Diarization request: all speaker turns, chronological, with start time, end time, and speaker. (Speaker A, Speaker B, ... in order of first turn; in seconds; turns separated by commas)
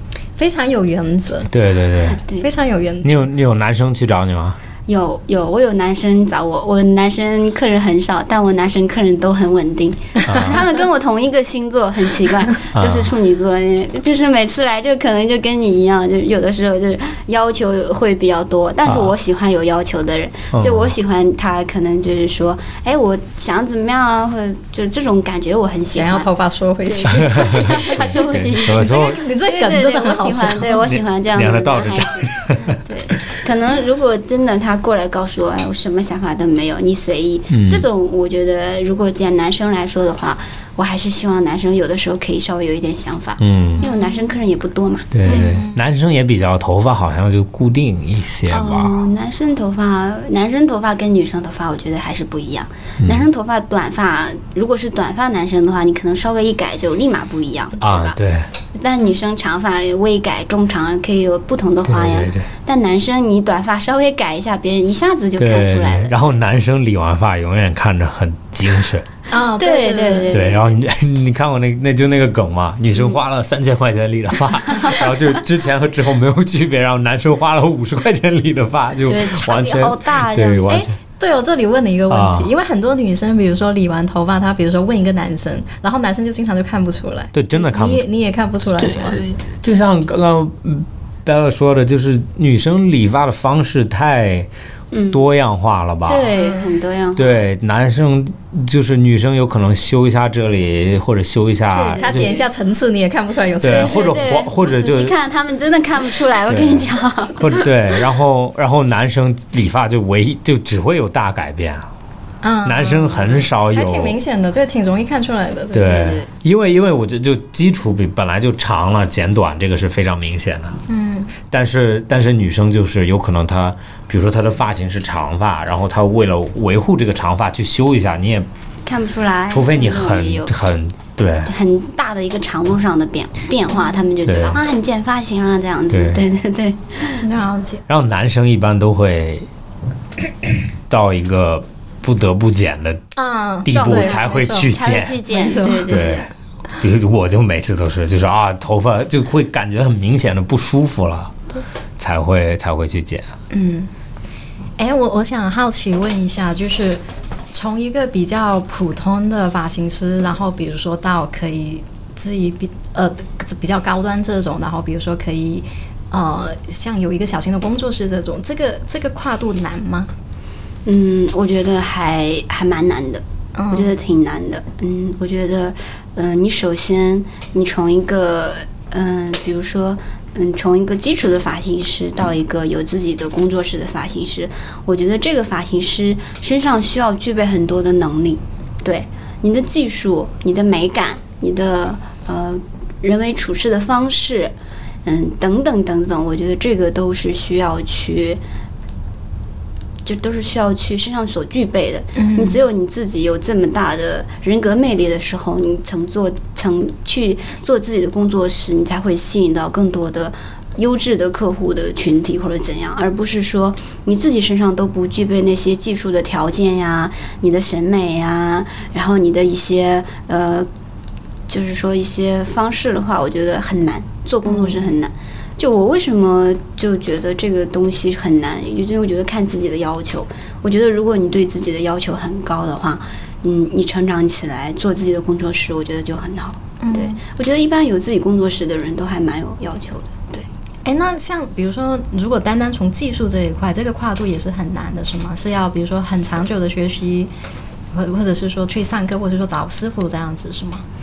Speaker A: 0.4-1.5, Speaker B: 1.5-2.2, Speaker C: 2.1-2.5, Speaker A: 2.4-3.2, Speaker B: 3.0-4.6, Speaker C: 4.9-26.3, Speaker B: 10.2-10.6, Speaker B: 12.7-13.1, Speaker B: 18.8-19.1, Speaker B: 20.5-20.9, Speaker A: 25.9-30.9, Speaker C: 26.9-45.5, Speaker B: 27.4-29.2, Speaker B: 30.8-33.1, Speaker B: 37.5-37.9, Speaker B: 43.4-43.8, Speaker A: 43.8-44.2, Speaker B: 45.1-49.0, Speaker A: 45.2-45.8, Speaker C: 48.5-58.2, Speaker B: 53.0-53.3, Speaker B: 57.8-58.5, Speaker C: 58.8-66.1, Speaker B: 61.9-62.5, Speaker B: 65.4-69.1, Speaker A: 69.3-70.4, Speaker C: 69.6-70.7, Speaker B: 70.3-80.9, Speaker C: 79.0-80.9, Speaker A: 80.7-89.2, Speaker B: 82.1-82.5, Speaker B: 87.3-88.0, Speaker B: 89.0-94.5, Speaker C: 94.9-95.2, Speaker B: 95.1-96.3, Speaker C: 96.0-97.3, Speaker A: 96.4-96.7, Speaker B: 97.2-102.3, Speaker C: 101.7-102.4, Speaker A: 101.9-104.2, Speaker B: 103.6-105.1, Speaker C: 103.6-107.7, Speaker B: 106.5-111.9, Speaker A: 112.4-116.1, Speaker B: 112.6-114.2, Speaker B: 115.7-120.8, Speaker C: 115.8-116.3, Speaker A: 120.9-121.3, Speaker B: 121.5-128.5, Speaker C: 128.8-130.5, Speaker B: 129.5-131.5, Speaker C: 131.4-137.2, Speaker B: 134.2-134.6, Speaker B: 135.9-136.2, Speaker A: 137.2-137.8, Speaker B: 137.9-139.5, Speaker B: 140.9-143.1, Speaker A: 143.2-144.7, Speaker B: 143.6-145.2, Speaker C: 143.7-146.3, Speaker A: 145.3-146.1, Speaker B: 145.8-151.3, Speaker B: 152.0-153.3, Speaker A: 153.5-153.9, Speaker A: 154.8-170.1, Speaker C: 170.8-194.5, Speaker A: 173.6-173.9, Speaker C: 195.0-198.4, Speaker C: 200.0-220.7, Speaker A: 202.2-202.6, Speaker C: 221.5-240.4, Speaker A: 224.4-224.9, Speaker A: 236.8-237.2, Speaker A: 240.8-247.3, Speaker A: 247.9-250.8